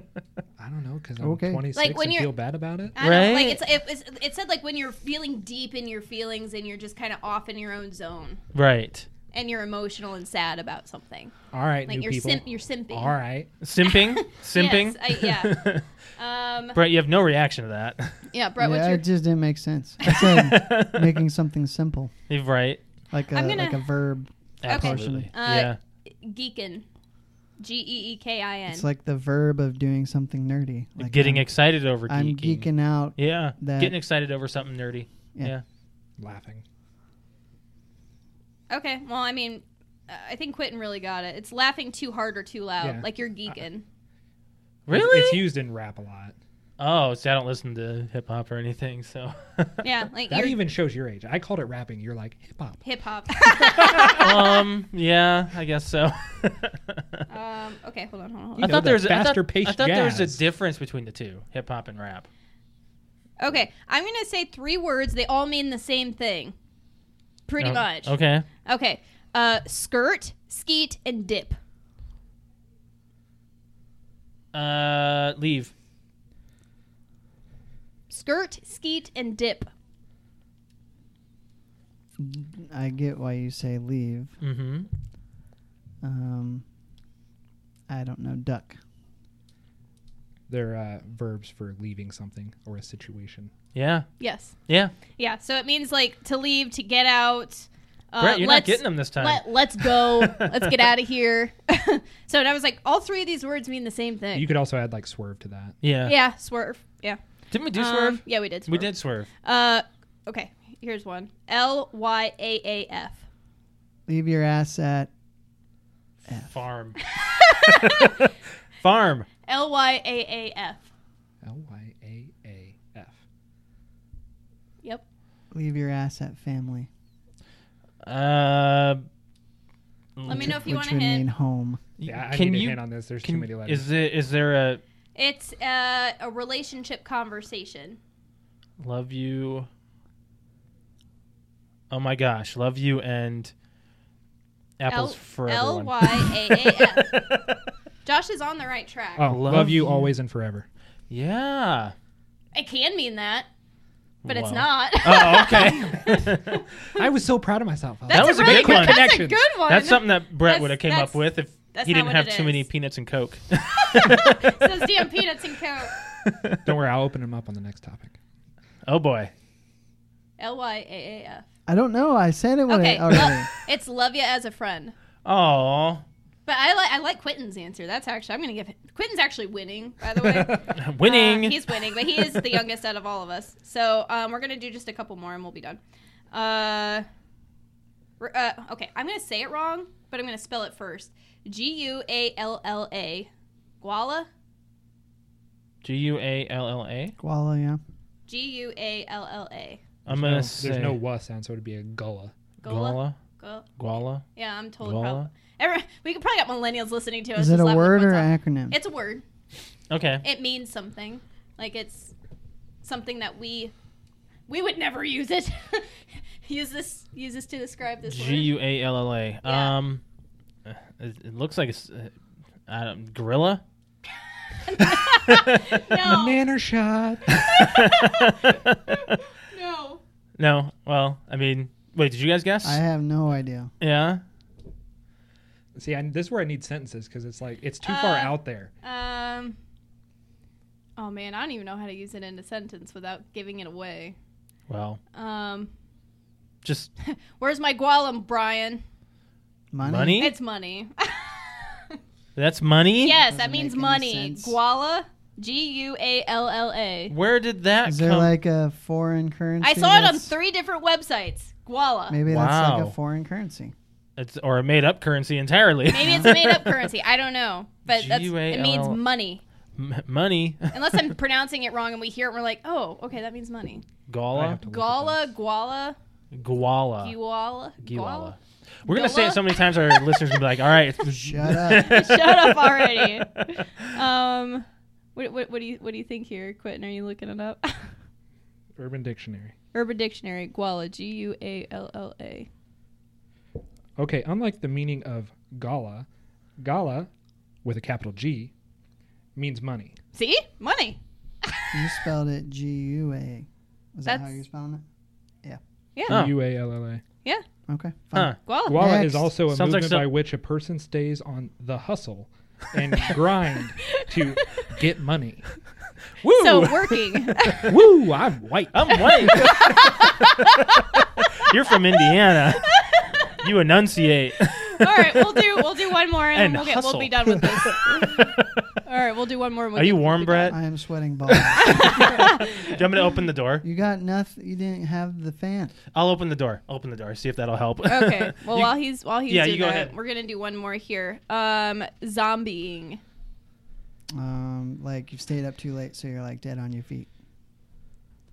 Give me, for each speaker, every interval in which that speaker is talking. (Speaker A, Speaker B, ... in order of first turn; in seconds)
Speaker A: 0.6-3.0, 11.5-13.5, 36.2-36.6, 42.8-43.5, 44.9-46.4, 50.3-52.8, 53.5-54.2, 58.6-60.4, 90.5-93.5, 104.3-105.8, 121.4-123.2, 132.1-133.9, 149.2-150.7, 156.9-159.4, 166.7-168.2, 180.2-180.7, 200.1-202.3, 225.9-227.7, 235.8-238.7, 274.3-275.3, 288.8-289.5, 294.0-296.1, 296.6-297.1, 297.6-298.5, 299.4-300.0, 306.1-307.0, 308.7-315.6, 317.7-319.6
Speaker B: 1.2-1.6, 18.6-22.1, 23.1-25.3, 28.7-31.5, 32.1-34.0, 82.2-84.3, 86.0-86.6, 87.9-88.8, 114.1-115.1, 125.5-126.9, 130.3-131.8, 171.7-173.5, 197.2-197.8, 207.4-208.8, 232.6-233.7, 249.7-250.3, 253.2-254.6, 257.9-260.4, 262.1-263.7, 281.1-282.0, 301.7-304.8, 307.7-309.3, 330.5-331.8, 333.6-335.7, 344.1-347.1
Speaker C: 1.7-2.3, 3.0-8.4, 9.3-11.3, 11.9-13.2, 13.9-16.8, 18.3-19.1, 23.3-23.9, 24.7-26.9, 27.6-28.9, 38.7-43.8, 49.8-50.6, 52.8-54.6, 57.3-59.0, 63.4-66.5, 67.5-68.1, 68.7-71.6, 78.1-79.7, 94.2-94.5, 95.2-104.5, 106.0-107.2, 107.7-113.2, 117.1-118.2, 119.5-120.9, 130.3-131.3, 135.2-138.0, 144.9-147.2, 148.1-149.4, 152.5-153.5, 154.3-157.0, 158.1-162.7, 163.8-165.9, 170.4-171.5, 172.7-174.9, 176.5-185.8, 186.3-187.1, 188.2-193.3, 193.8-194.3, 198.3-199.8, 202.6-203.7, 204.3-209.2, 210.2-212.1, 212.8-213.7, 214.5-215.9, 216.4-218.5, 219.4-219.8, 224.6-226.4, 227.4-230.0, 237.8-239.6, 241.0-244.2, 245.1-245.7, 247.0-248.8, 250.2-252.0, 253.0-257.1, 259.6-262.2, 265.9-269.4, 270.7-273.8, 274.7-276.0, 277.0-278.4, 278.9-280.4, 281.7-287.9, 289.7-292.5, 300.1-301.8, 304.1-304.4, 308.4-308.8, 313.8-314.7, 316.3-317.8, 319.1-321.0, 322.1-323.4, 324.7-328.1, 328.9-330.6, 331.6-332.5, 337.9-343.0
Speaker D: 3.0-3.6, 8.5-9.1, 13.6-15.9, 16.7-18.2, 20.1-21.1, 22.3-22.8, 24.6-25.8, 31.0-35.6, 44.9-45.5, 46.8-49.9, 54.1-57.2, 58.6-62.3, 67.6-68.5, 74.5-75.7, 84.4-84.9, 93.8-94.1, 94.7-94.9, 98.2-100.7, 105.8-106.2, 107.5-109.3, 116.5-117.0, 117.9-118.3, 118.8-119.3, 128.0-129.1, 130.2-130.7, 132.0-134.8, 138.8-139.7, 141.9-143.5, 144.8-147.6, 149.3-150.1, 151.1-151.9, 154.2-156.6, 158.1-159.1, 159.7-164.7, 166.0-166.6, 168.9-169.3, 175.2-176.0, 180.7-181.6, 195.8-197.2, 200.1-201.0, 202.7-203.2, 203.8-204.2, 204.8-205.3, 209.9-210.2, 218.1-220.0, 220.7-222.1, 222.7-223.6, 227.5-228.8, 230.4-232.8, 233.8-234.2, 244.7-245.0, 246.6-246.9, 249.8-250.3, 252.4-253.2, 257.1-258.4, 262.3-262.9, 264.2-266.9, 267.9-269.0, 269.8-271.1, 274.1-274.6, 276.3-277.2, 277.8-283.2, 306.1-306.4, 308.1-308.4, 309.5-310.1, 316.2-317.7, 318.7-320.5, 321.2-322.7, 323.4-325.6, 326.3-328.6, 329.8-330.6, 331.3-333.6, 335.9-339.9